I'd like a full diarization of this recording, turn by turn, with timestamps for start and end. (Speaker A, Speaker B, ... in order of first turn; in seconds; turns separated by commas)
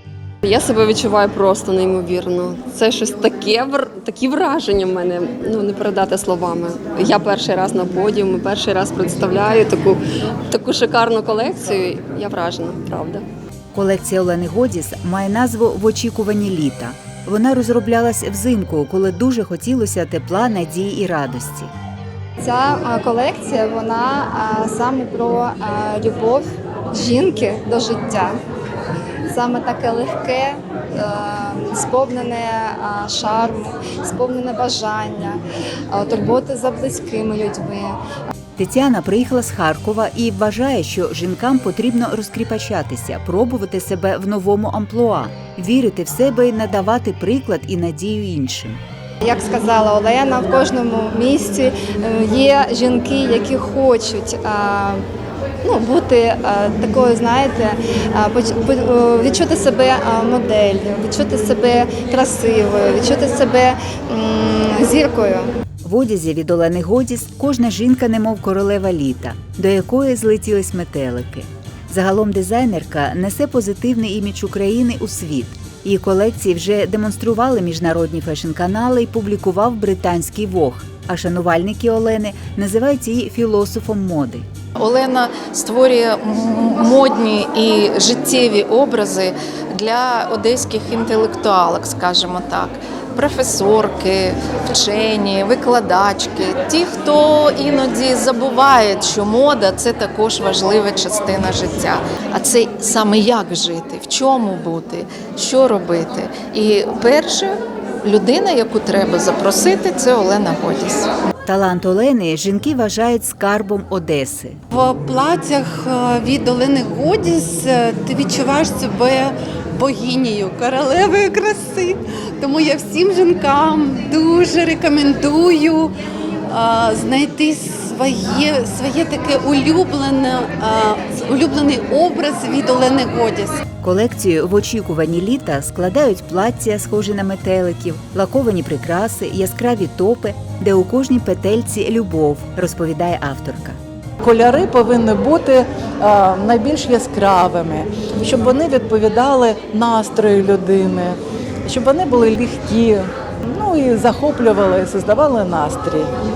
Speaker A: 0.4-13.3, Speaker B: 13.7-21.7, Speaker C: 22.4-28.3, Speaker C: 29.3-35.4, Speaker C: 35.9-38.0, Speaker B: 38.6-48.8, Speaker C: 49.2-55.0, Speaker C: 55.6-65.5, Speaker B: 65.8-84.5, Speaker D: 84.8-111.1, Speaker B: 111.4-114.6, Speaker E: 114.7-125.9, Speaker E: 126.5-133.6, Speaker B: 133.8-143.8, Speaker F: 144.2-156.1